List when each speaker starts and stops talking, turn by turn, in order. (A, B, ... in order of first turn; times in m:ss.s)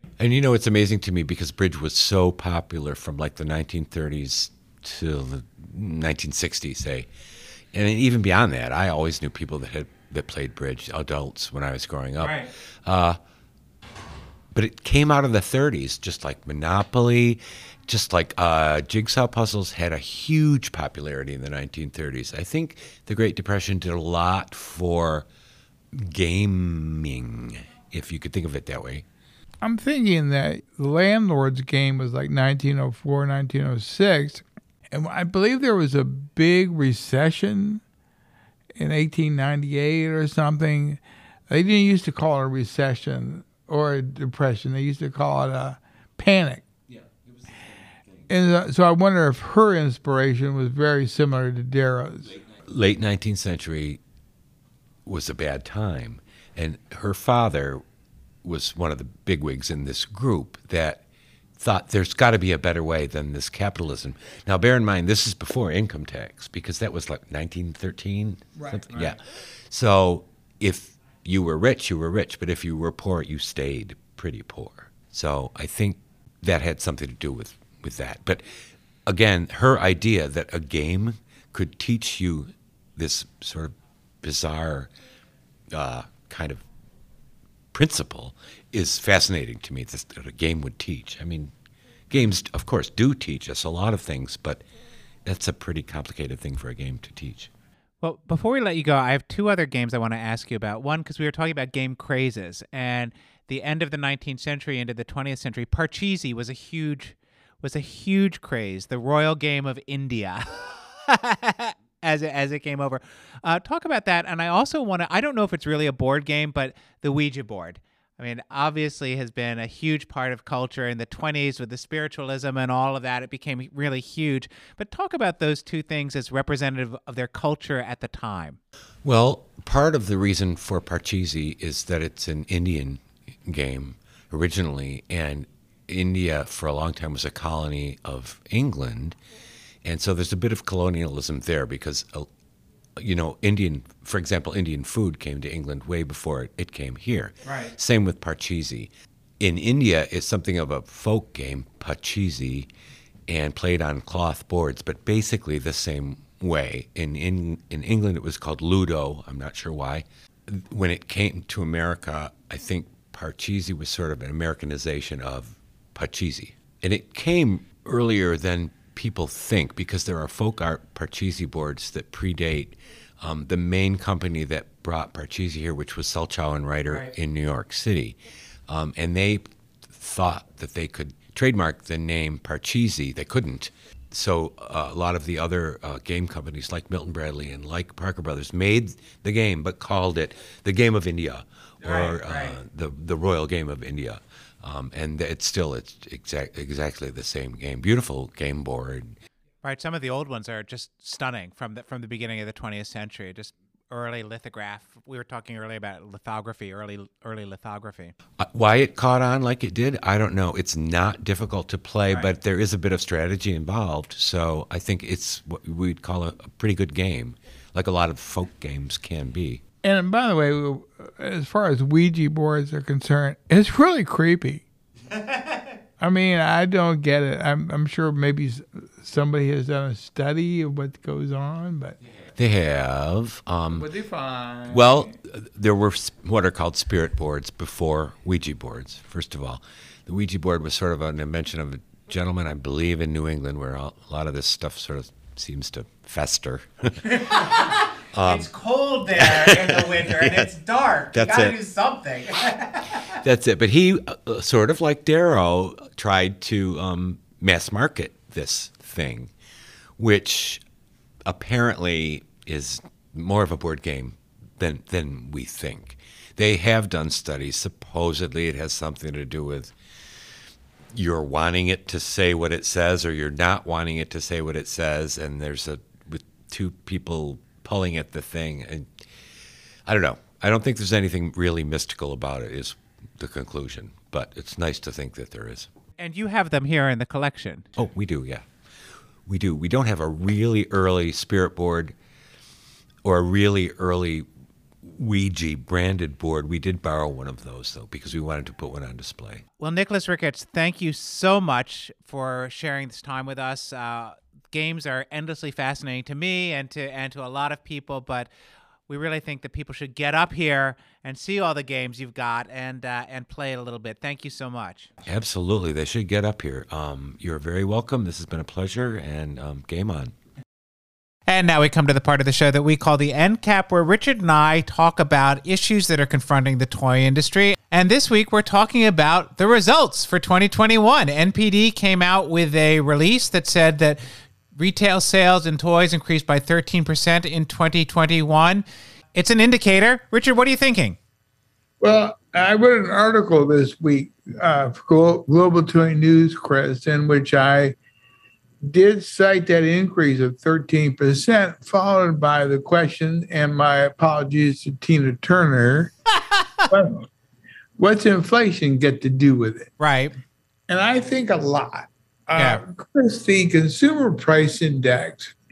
0:00.2-0:07.1 A
0:07.7-0:13.2 A
0:12.2-0:12.5 B
0:14.5-0:25.3 A
0:25.9-0:29.0 A
0:29.6-0:37.8 C
0:38.8-0:46.6 C
0:48.3-0:52.4 C
0:52.5-0:54.0 A
0:55.0-0:57.8 A
0:58.4-1:01.0 A
1:01.6-1:18.4 A
1:08.7-1:09.1 C
1:19.1-1:24.9 A
1:25.7-1:26.6 A
1:27.7-1:31.5 A
1:32.1-1:34.6 A
1:35.2-1:37.5 A
1:38.0-2:08.6 B
2:09.0-2:19.2 A
2:19.8-2:22.3 A
2:23.0-2:32.7 A
2:33.3-2:58.2 A
2:58.7-3:19.2 A
3:11.8-3:12.6 B
3:19.6-3:28.1 B
3:28.4-3:39.6 A
3:39.8-3:44.6 C
3:45.3-3:45.6 B
3:46.0-3:52.0 C
3:52.3-3:53.9 A
3:53.7-3:55.1 C
3:54.7-4:07.5 A
4:07.0-4:13.2 B
4:08.1-4:08.5 A
4:09.2-4:10.5 A
4:11.1-4:11.6 A
4:13.1-4:19.3 A
4:20.0-4:20.6 A
4:21.2-4:29.7 A
4:30.9-4:39.0 A
4:39.9-4:45.7 A
4:46.0-4:47.7 B
4:47.8-4:48.5 A
4:49.3-4:51.9 A
4:53.0-4:54.2 A
4:54.8-4:59.4 A
4:59.6-5:08.3 B
5:08.9-5:14.9 B
5:15.0-5:20.1 A
5:21.3-5:34.0 B
5:34.6-5:38.6 B
5:39.1-5:41.0 B
5:41.8-5:47.8 C
5:48.6-5:55.9 C
5:56.3-5:56.7 B
5:56.7-5:57.1 C
5:57.8-5:59.7 C
5:59.8-6:00.2 B
6:00.7-6:05.3 C
6:02.4-6:02.6 B